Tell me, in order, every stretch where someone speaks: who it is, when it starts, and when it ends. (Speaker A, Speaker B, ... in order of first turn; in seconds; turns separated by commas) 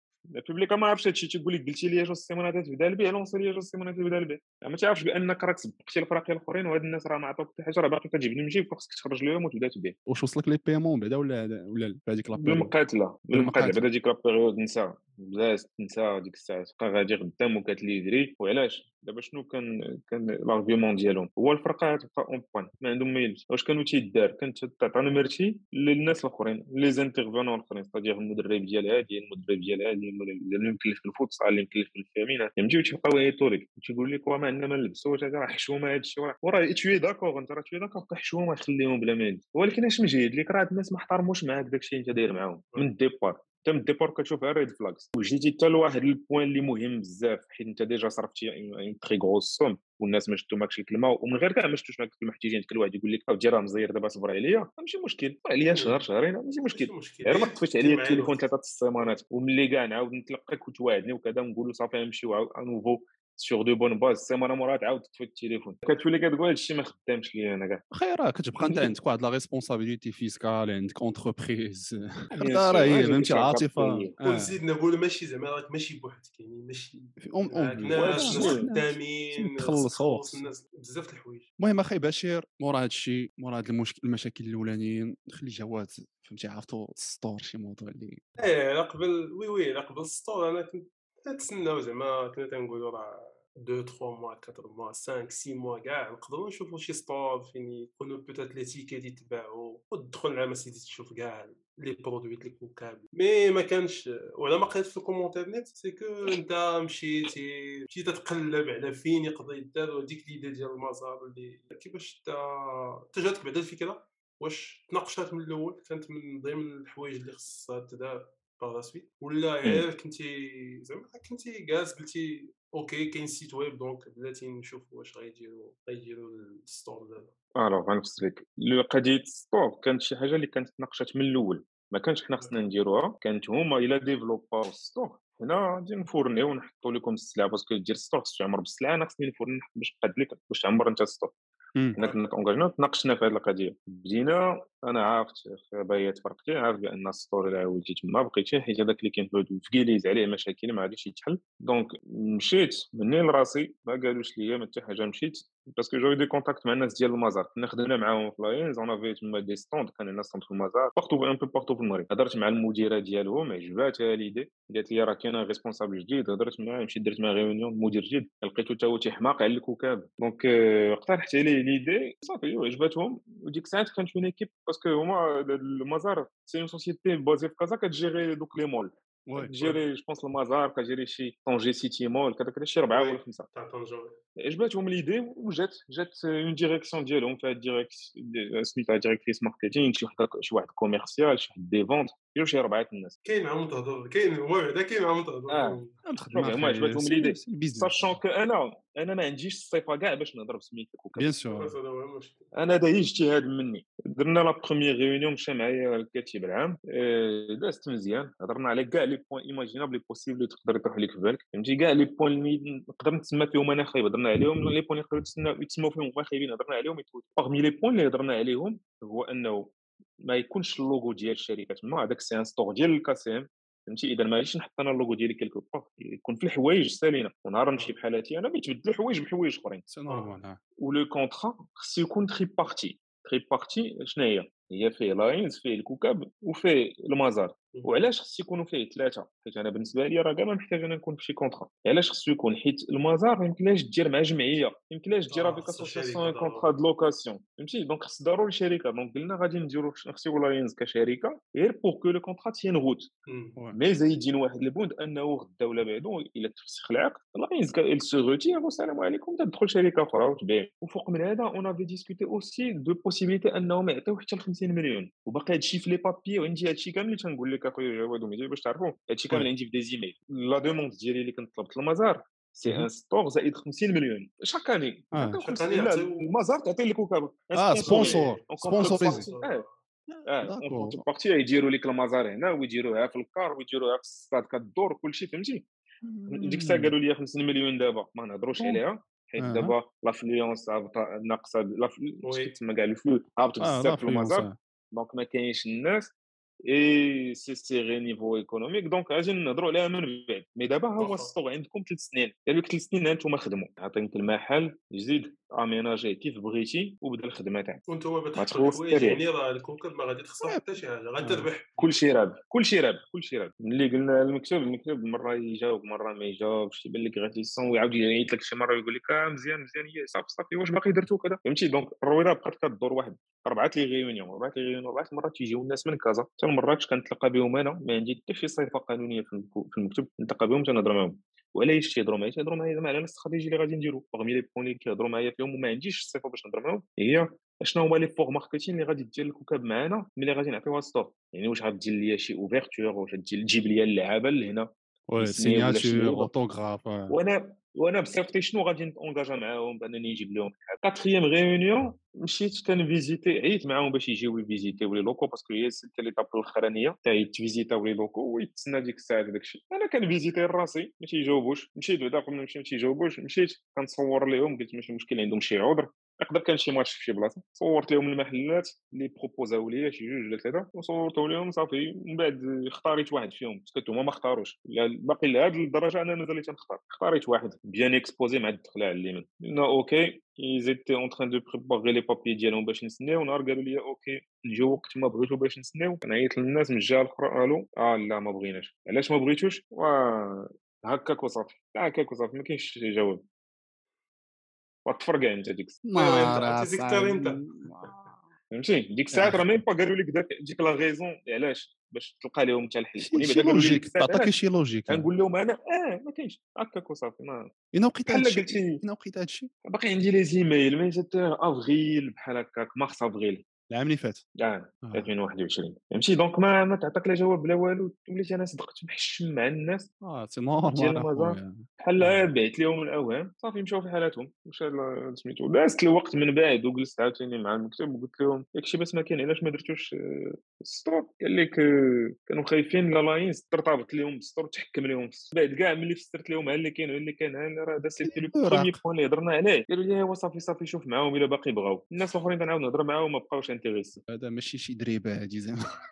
Speaker A: 0.3-10.0, Speaker B: 10.1-12.7, Speaker A: 12.4-67.8, Speaker B: 13.3-13.8, Speaker C: 55.7-56.0, Speaker C: 56.7-58.5, Speaker B: 67.9-74.6, Speaker A: 68.6-68.9, Speaker A: 72.4-74.1, Speaker C: 74.2-81.5, Speaker B: 77.2-80.5, Speaker A: 77.9-78.6, Speaker B: 81.6-88.2, Speaker C: 88.4-127.3, Speaker A: 127.6-141.3, Speaker A: 142.0-183.5, Speaker B: 179.3-179.5, Speaker C: 182.9-184.2, Speaker A: 184.4-193.2, Speaker C: 193.2-195.9, Speaker A: 195.5-195.8, Speaker B: 196.1-198.2, Speaker A: 196.3-201.3, Speaker B: 201.2-201.8, Speaker C: 201.5-202.5, Speaker A: 202.5-229.8, Speaker B: 229.9-230.6, Speaker A: 230.8-253.1, Speaker C: 237.7-238.1, Speaker C: 245.3-246.7, Speaker C: 253.3-253.6, Speaker A: 253.7-279.6, Speaker B: 275.1-275.4, Speaker C: 275.4-276.3, Speaker B: 277.5-279.3, Speaker C: 277.8-279.7, Speaker B: 280.1-281.0, Speaker A: 280.3-285.7, Speaker B: 286.0-286.9, Speaker A: 286.3-296.1, Speaker B: 289.4-289.8, Speaker C: 292.2-292.5, Speaker B: 293.6-294.6, Speaker A: 296.6-307.8, Speaker C: 301.0-301.3, Speaker C: 307.9-311.8, Speaker A: 308.4-309.2, Speaker B: 310.4-311.5, Speaker A: 311.8-346.3, Speaker B: 345.1-347.2, Speaker A: 347.1-393.2, Speaker A: 394.9-395.8, Speaker B: 395.8-398.3, Speaker C: 395.9-397.9, Speaker A: 398.5-404.4, Speaker B: 399.1-399.4, Speaker B: 403.0-405.1, Speaker A: 404.9-407.5, Speaker B: 407.7-409.5, Speaker A: 408.1-408.8, Speaker A: 409.7-413.4, Speaker B: 413.7-414.2, Speaker A: 414.4-419.9, Speaker B: 414.8-415.1, Speaker B: 420.0-422.3, Speaker A: 420.7-444.0, Speaker B: 438.0-438.8, Speaker B: 444.1-445.6